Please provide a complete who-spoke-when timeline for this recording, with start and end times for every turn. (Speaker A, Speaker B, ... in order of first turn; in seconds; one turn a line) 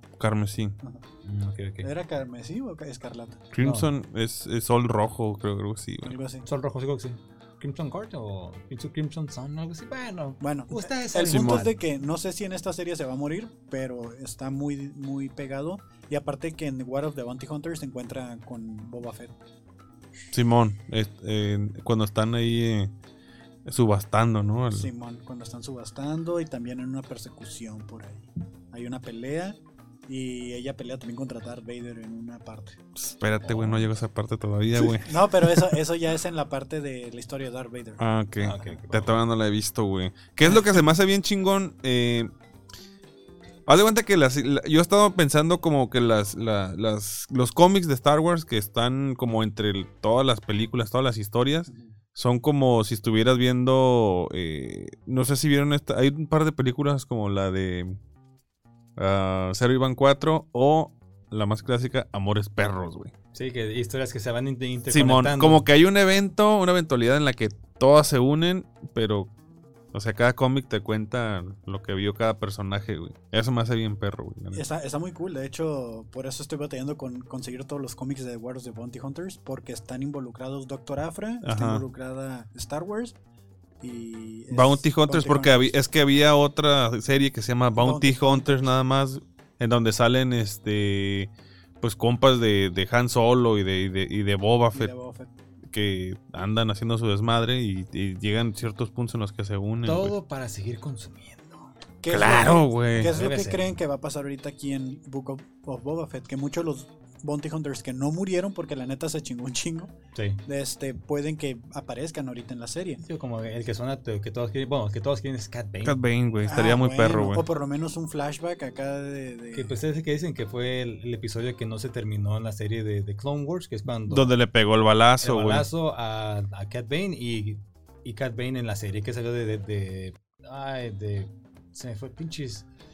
Speaker A: 0.2-0.8
Speaker B: 1.2-1.9
Speaker C: 1.8-3.4
Speaker A: 3.5-6.2
Speaker B: 3.6-3.9
Speaker C: 6.0-6.5
Speaker B: 6.5-11.7
Speaker C: 10.4-19.4
Speaker A: 11.3-11.7
Speaker A: 20.3-22.9
Speaker A: 23.7-24.9
Speaker C: 24.7-32.8
Speaker A: 33.0-35.8
Speaker B: 33.4-33.9
Speaker C: 34.8-38.0
Speaker A: 38.0-42.3
Speaker B: 38.4-39.2
Speaker A: 43.7-58.0
Speaker C: 51.7-51.9
Speaker A: 59.0-63.1
Speaker B: 63.3-65.7
Speaker A: 64.9-69.3
Speaker A: 69.9-74.6
Speaker C: 74.5-83.2
Speaker A: 81.4-81.8
Speaker C: 83.8-85.8
Speaker A: 84.5-94.9
Speaker C: 87.8-88.6
Speaker C: 94.7-95.3
Speaker A: 95.7-100.1
Speaker B: 99.8-101.7
Speaker C: 102.0-109.9
Speaker A: 102.1-103.2
Speaker B: 103.0-103.7
Speaker B: 110.2-110.4
Speaker C: 110.5-113.0
Speaker B: 113.0-116.0
Speaker A: 115.8-117.5
Speaker C: 116.5-119.8
Speaker B: 119.5-124.3
Speaker A: 124.1-125.7
Speaker B: 125.2-132.7